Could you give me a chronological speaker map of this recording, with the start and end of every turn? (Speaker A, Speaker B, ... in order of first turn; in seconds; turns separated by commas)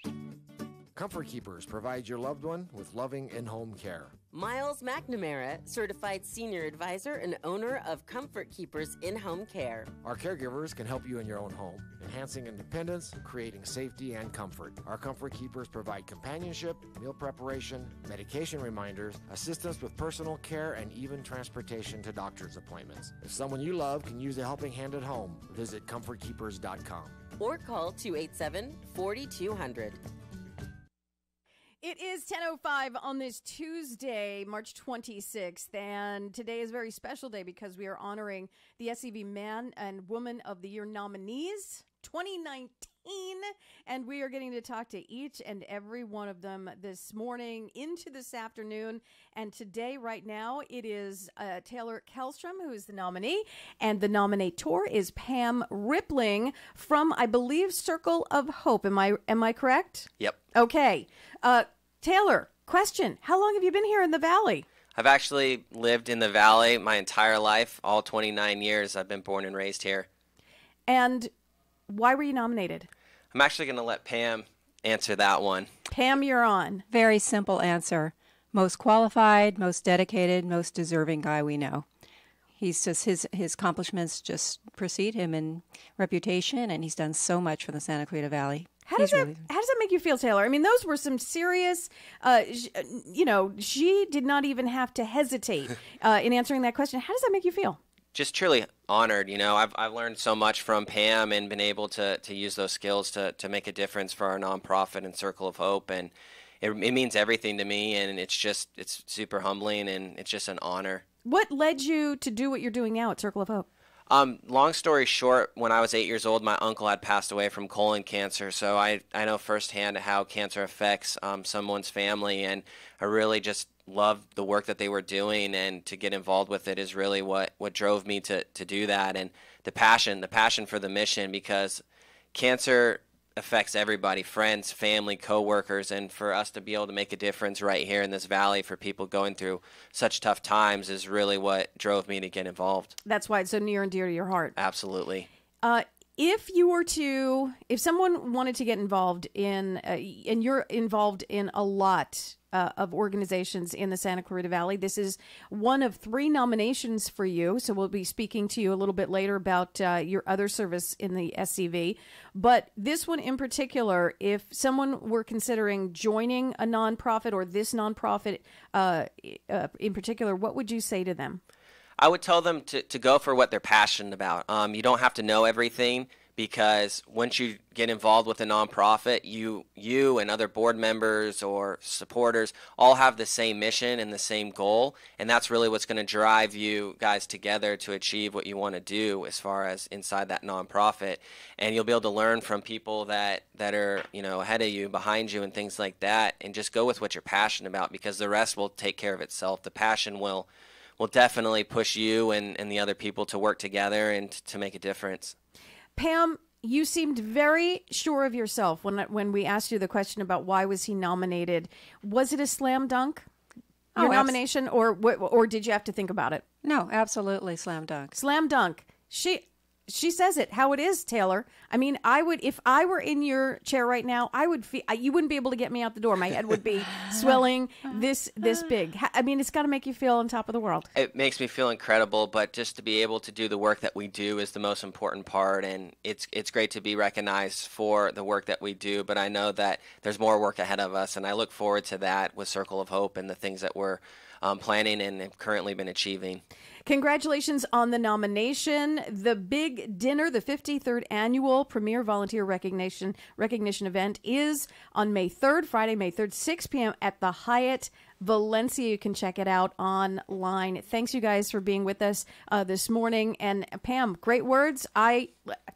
Speaker A: 0.9-4.1, Speaker B: 4.3-9.9, Speaker A: 10.0-27.2, Speaker B: 27.4-30.0, Speaker C: 31.8-64.7, Speaker D: 65.0-70.1, Speaker C: 70.9-71.3, Speaker C: 71.9-72.9, Speaker D: 73.3-75.7, Speaker C: 75.9-76.8, Speaker E: 76.9-81.9, Speaker E: 82.6-89.5, Speaker C: 88.9-97.8, Speaker D: 98.1-111.0, Speaker C: 111.2-113.7, Speaker D: 114.1-131.8, Speaker D: 132.3-143.0, Speaker C: 143.1-144.6, Speaker D: 144.6-145.3, Speaker C: 145.6-171.4, Speaker D: 172.0-200.5, Speaker D: 201.0-205.3, Speaker C: 206.0-213.3, Speaker C: 213.9-216.4, Speaker E: 214.0-214.4, Speaker E: 216.6-218.2, Speaker C: 218.1-230.9, Speaker D: 230.9-246.4, Speaker C: 246.9-265.6